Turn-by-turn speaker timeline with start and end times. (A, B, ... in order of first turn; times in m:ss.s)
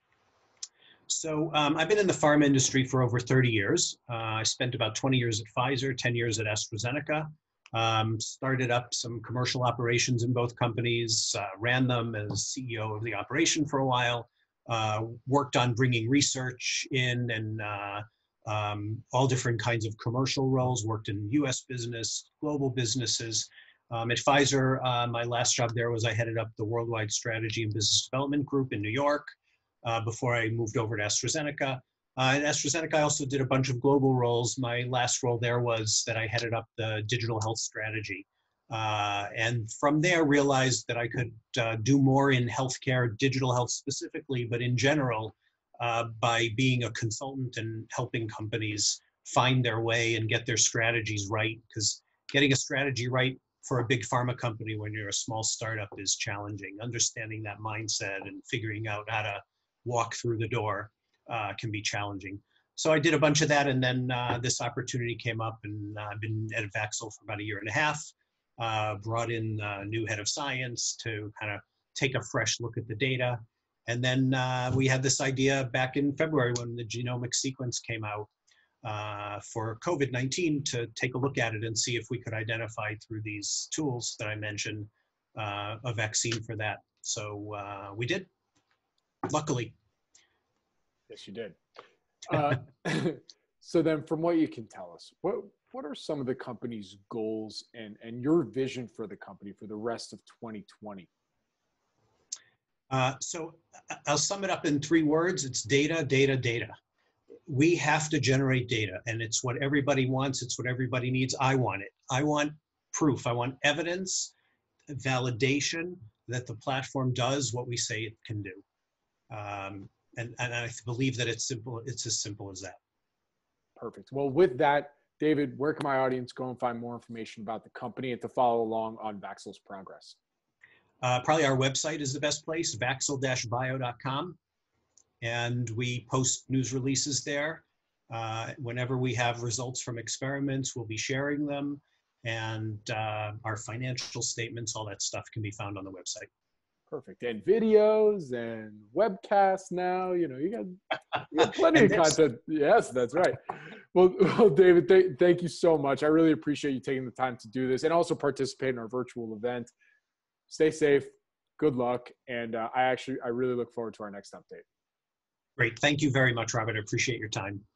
0:01.1-1:18.3 A
1:18.8-1:28.3 A
1:29.3-1:29.7 A
1:31.1-1:31.6 B
1:32.3-1:41.1 B
1:42.9-1:46.7 A
1:47.5-1:54.3 A
1:54.9-1:58.6 A
1:59.3-2:02.8 A
2:03.8-2:10.2 B
2:11.0-2:14.4 A
2:15.2-2:26.3 A
2:26.9-2:39.7 B
2:31.7-2:32.2 A
2:40.5-2:44.6 B
2:45.6-2:47.6 A